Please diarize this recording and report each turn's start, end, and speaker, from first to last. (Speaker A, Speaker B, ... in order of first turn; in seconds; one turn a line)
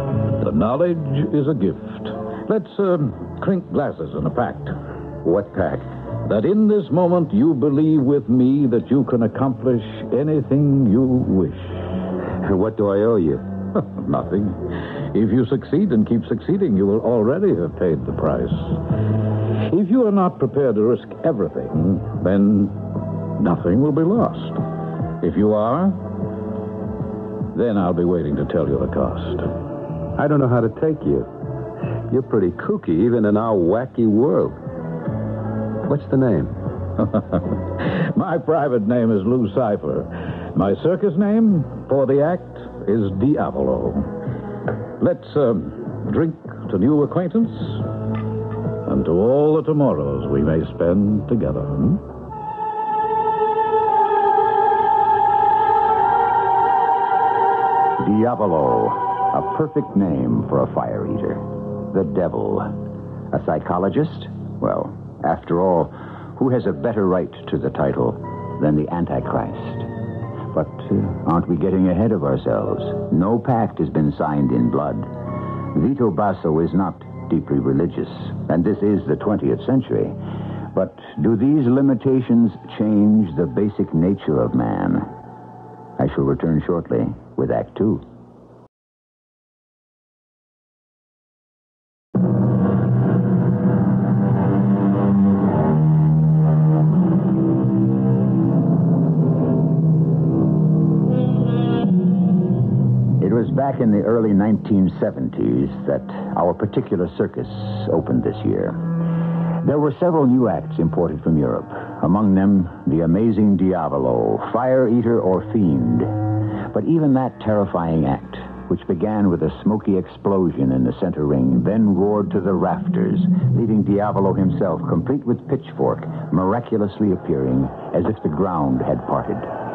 Speaker A: 0.4-4.7
Speaker B: 5.2-5.8
Speaker A: 6.2-11.8
Speaker B: 12.4-13.4
Speaker A: 13.8-18.8
Speaker A: 19.7-22.8
Speaker A: 23.4-24.6
Speaker A: 25.2-26.0
Speaker A: 27.5-29.5
Speaker B: 30.1-31.3
Speaker B: 32.1-34.5
Speaker B: 35.9-36.5
Speaker A: 37.1-44.1
Speaker A: 45.0-47.9
Speaker A: 48.8-52.0
Speaker C: 58.0-62.7
Speaker C: 63.3-69.9
Speaker C: 70.5-75.1
Speaker C: 75.7-80.2
Speaker C: 80.7-85.1
Speaker C: 86.0-88.0
Speaker C: 103.2-108.8
Speaker C: 109.6-116.1
Speaker C: 116.7-129.5